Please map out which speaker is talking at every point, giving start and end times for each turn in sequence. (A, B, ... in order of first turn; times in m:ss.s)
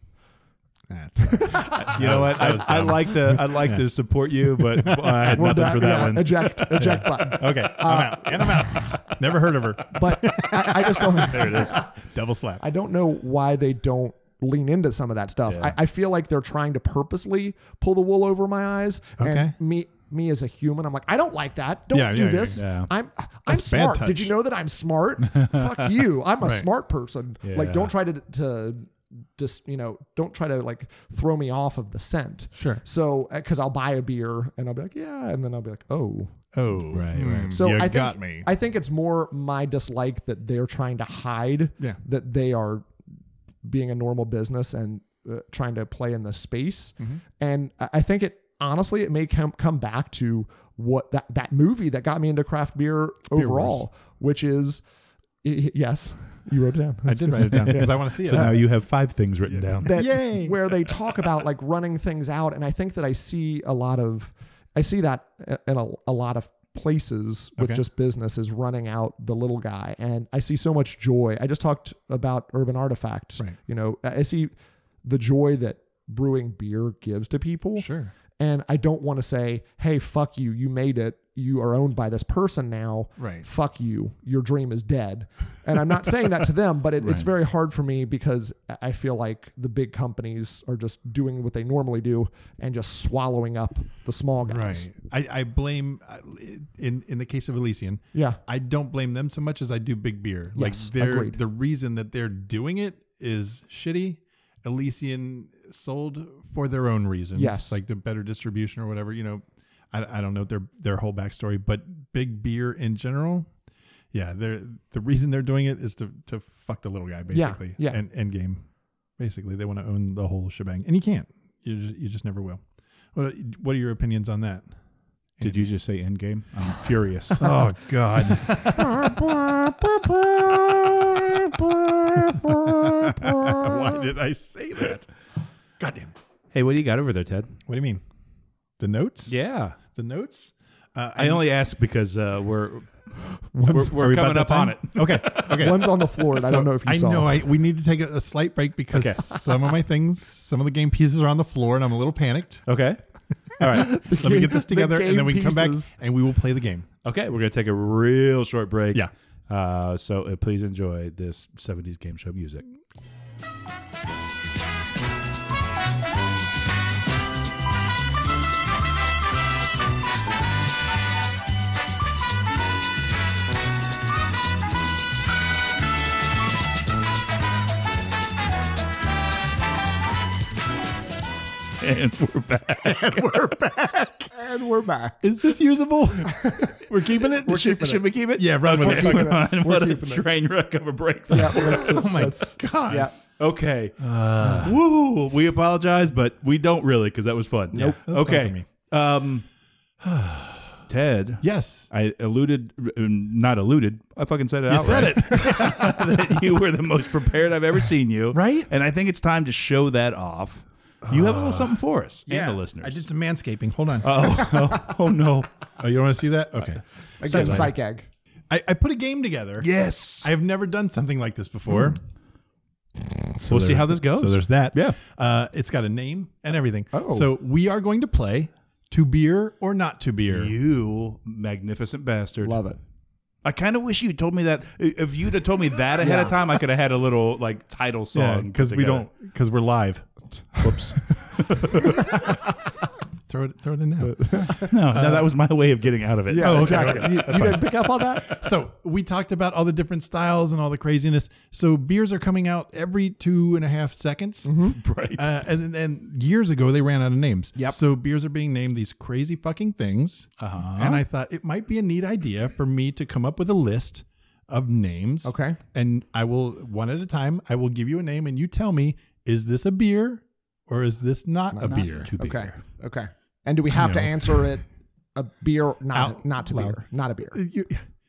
0:00.9-0:03.8 A
0:01.3-0:01.9 B
0:01.9-0:07.0 C
0:04.6-0:05.8 A
0:05.3-0:09.1 B
0:06.8-0:12.6 A
0:09.9-0:11.9 B
0:11.3-0:11.8 C
0:12.6-0:36.4 B
0:15.5-0:15.7 C
0:19.2-0:19.5 A
0:21.9-0:22.6 A
0:22.6-0:22.9 C
0:23.5-0:24.3 A
0:25.3-0:25.6 C
0:26.4-0:26.6 A
0:27.4-0:27.9 C
0:32.5-0:32.8 A
0:36.5-0:38.5 A
0:36.9-0:37.5 C
0:37.4-0:42.9 B
0:43.6-0:54.8 B
0:53.3-0:53.8 A
0:55.4-0:58.5 B
0:57.0-0:58.6 A
0:57.4-1:00.1 C
0:59.5-1:00.9 A
0:59.8-1:34.9 B
1:07.6-1:07.8 A
1:17.8-1:18.1 A
1:23.2-1:23.4 A
1:34.5-1:53.5 A
1:38.1-1:38.4 B
1:40.5-1:41.4 B
1:47.3-1:47.8 B
1:54.1-1:58.6 A
1:57.3-1:58.0 B
1:59.2-2:04.7 A
2:05.4-2:05.7 A
2:05.4-2:07.5 C
2:07.4-2:10.1 A
2:08.3-2:08.8 C
2:12.2-2:15.1 A
2:13.2-2:13.6 B
2:15.8-2:16.1 A
2:16.5-2:17.5 C
2:17.7-2:18.0 A
2:18.8-2:21.4 A
2:19.3-2:19.8 C
2:21.2-2:23.1 C
2:23.6-2:25.9 C
2:23.7-2:32.6 A
2:25.4-2:27.4 B
2:28.9-2:29.3 C
2:32.6-2:33.0 C
2:33.6-2:34.0 C
2:33.8-2:35.9 B
2:34.0-2:36.9 A
2:37.0-2:42.6 C
3:01.8-3:03.9 C
3:02.9-3:04.3 A
3:04.3-3:05.2 B
3:05.2-3:09.4 A
3:06.3-3:06.8 B
3:07.2-3:12.3 C
3:08.6-3:10.3 B
3:11.3-3:13.1 B
3:11.5-3:13.1 A
3:13.4-3:19.4 C
3:14.0-3:14.8 A
3:17.7-3:18.7 A
3:20.0-3:20.8 A
3:20.9-3:33.0 C
3:21.4-3:21.9 A
3:24.7-3:26.4 A
3:28.3-3:28.7 A
3:31.0-3:34.3 A
3:34.0-3:35.5 C
3:35.8-3:37.7 A
3:37.2-3:38.0 B
3:37.2-3:37.7 C
3:38.5-3:39.7 A
3:39.6-3:40.3 C
3:40.2-3:42.0 A
3:43.4-3:45.0 C
3:43.4-3:50.5 A
3:46.9-3:47.3 B
3:50.3-3:52.6 C
3:52.4-3:52.8 B
3:53.4-3:59.1 C
3:56.0-3:56.4 B
3:58.1-4:00.1 A
4:00.6-4:02.1 C
4:01.8-4:02.3 A
4:03.3-4:05.3 A
4:04.0-4:04.7 B
4:04.5-4:07.5 C
4:06.3-4:08.4 B
4:06.4-4:32.1 A
4:14.4-4:14.8 B
4:14.7-4:15.3 C
4:20.4-4:21.0 C
4:25.2-4:25.6 B
4:31.5-4:37.4 B
4:31.6-4:32.6 C
4:33.7-4:34.5 A
4:35.9-4:36.8 A
4:37.3-4:37.8 A